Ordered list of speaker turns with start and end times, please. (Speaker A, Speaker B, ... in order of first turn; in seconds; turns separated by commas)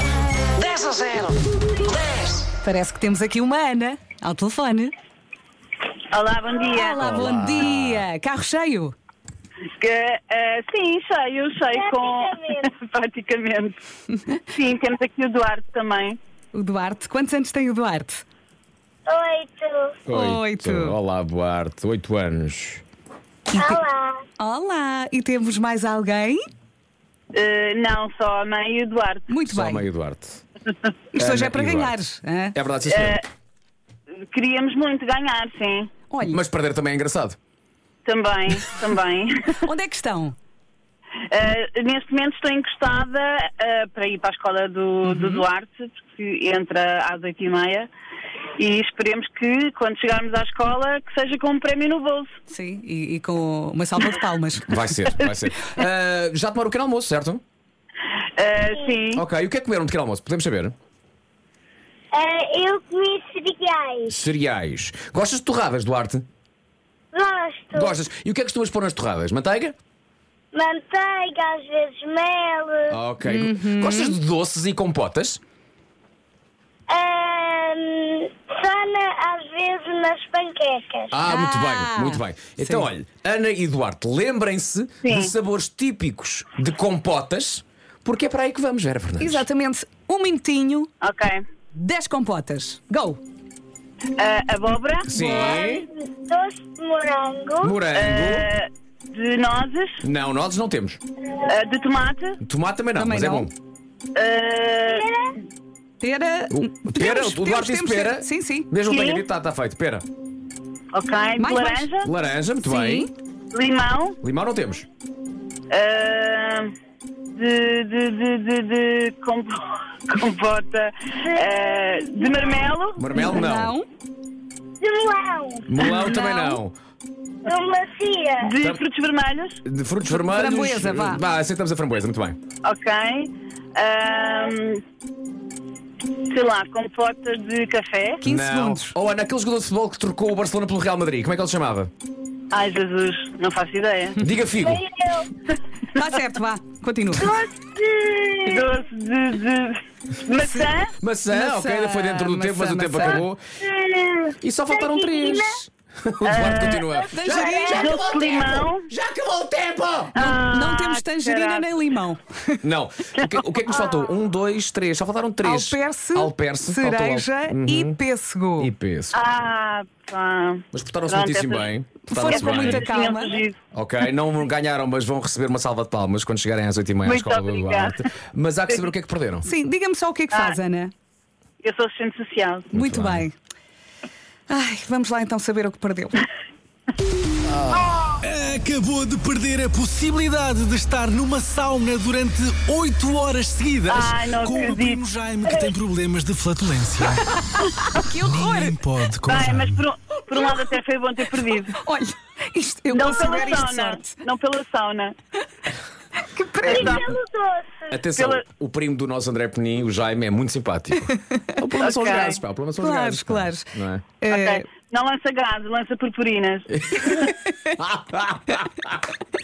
Speaker A: 0.5-2.4, Speaker B: 2.5-4.9, Speaker C: 6.1-7.2, Speaker B: 6.7-8.9, Speaker D: 7.0-8.0, Speaker C: 9.7-13.8, Speaker E: 11.7-12.7, Speaker C: 14.5-16.2, Speaker B: 16.5-18.2, Speaker E: 19.1-20.0, Speaker D: 20.1-22.8, Speaker B: 20.1-20.9, Speaker E: 23.5-24.2, Speaker B: 23.5-23.8, Speaker B: 24.4-26.4, Speaker C: 27.3-29.3, Speaker B: 29.3-29.9, Speaker D: 29.5-30.4, Speaker B: 31.1-32.6, Speaker D: 31.2-32.0, Speaker D: 32.5-33.2, Speaker C: 32.9-33.2, Speaker C: 34.3-35.9, Speaker B: 36.1-36.4, Speaker D: 36.3-37.4, Speaker C: 38.0-39.5, Speaker B: 39.6-40.4, Speaker C: 41.3-47.9, Speaker B: 45.1-45.4, Speaker C: 48.6-52.3, Speaker B: 52.5-54.8, Speaker D: 54.6-57.4, Speaker C: 58.4-59.2, Speaker D: 59.1-60.8, Speaker E: 62.1-64.2, Speaker D: 64.1-66.2, Speaker E: 67.1-68.0, Speaker D: 67.7-69.8, Speaker E: 70.5-73.0, Speaker D: 72.9-75.4, Speaker B: 73.2-74.2, Speaker E: 76.9-81.2, Speaker D: 81.1-89.5, Speaker B: 81.3-82.9, Speaker C: 85.0-85.3, Speaker B: 89.2-90.9, Speaker C: 91.0-91.4, Speaker B: 91.7-93.2, Speaker C: 94.2-95.1, Speaker D: 95.1-95.9, Speaker B: 95.1-95.8, Speaker E: 95.2-97.8, Speaker D: 97.6-98.5, Speaker C: 97.9-100.0, Speaker D: 100.0-101.0, Speaker C: 101.4-102.4, Speaker D: 102.4-103.5, Speaker B: 103.0-103.5, Speaker C: 104.2-105.1, Speaker E: 104.9-105.3, Speaker B: 106.0-108.7, Speaker D: 106.5-110.0, Speaker C: 108.9-109.2, Speaker C: 110.9-112.1, Speaker B: 111.4-111.9, Speaker D: 112.0-113.1, Speaker B: 112.6-113.1, Speaker C: 113.5-114.2, Speaker D: 114.2-114.9, Speaker C: 115.7-116.7, Speaker C: 117.3-123.2, Speaker E: 121.2-122.6, Speaker D: 123.0-123.8, Speaker B: 123.1-123.9, Speaker E: 124.8-125.8, Speaker D: 125.7-126.8, Speaker B: 125.9-126.6, Speaker E: 127.4-128.5, Speaker C: 128.4-129.6, Speaker D: 129.7-132.4, Speaker B: 130.1-131.2, Speaker C: 132.6-134.8, Speaker C: 136.3-138.2, Speaker B: 138.2-138.9, Speaker D: 138.2-141.9, Speaker C: 142.5-144.2, Speaker D: 144.2-144.8, Speaker E: 144.6-145.3, Speaker B: 145.9-147.4, Speaker E: 147.2-148.7, Speaker C: 148.5-150.9, Speaker B: 150.4-150.7, Speaker D: 151.0-153.4, Speaker B: 151.3-153.3, Speaker E: 153.6-155.6, Speaker D: 154.4-160.2, Speaker C: 156.2-156.9, Speaker E: 156.9-157.8, Speaker B: 157.1-157.9, Speaker C: 157.7-158.9, Speaker C: 160.2-161.9, Speaker B: 160.2-162.6, Speaker D: 162.6-168.0, Speaker C: 163.2-163.5, Speaker E: 163.7-164.1, Speaker B: 165.4-168.7, Speaker D: 168.6-169.2, Speaker C: 169.1-173.6, Speaker D: 170.7-172.9, Speaker B: 172.0-173.4, Speaker D: 173.7-179.5, Speaker C: 177.1-178.0, Speaker B: 179.4-180.9, Speaker C: 180.3-180.6, Speaker C: 181.6-182.7, Speaker D: 182.7-183.3, Speaker B: 182.7-183.3, Speaker B: 184.5-186.3, Speaker D: 187.5-187.9, Speaker F: 188.2-197.3, Speaker C: 193.9-195.0, Speaker B: 197.6-198.8, Speaker F: 198.2-199.8, Speaker C: 199.2-201.8, Speaker B: 201.7-204.1, Speaker C: 202.9-205.2, Speaker B: 206.3-207.1, Speaker C: 206.6-207.1, Speaker E: 206.7-208.0, Speaker D: 207.9-214.1, Speaker C: 208.2-208.4, Speaker C: 211.8-212.4, Speaker B: 212.8-214.7, Speaker C: 214.3-216.7, Speaker B: 217.1-217.7, Speaker D: 217.8-219.0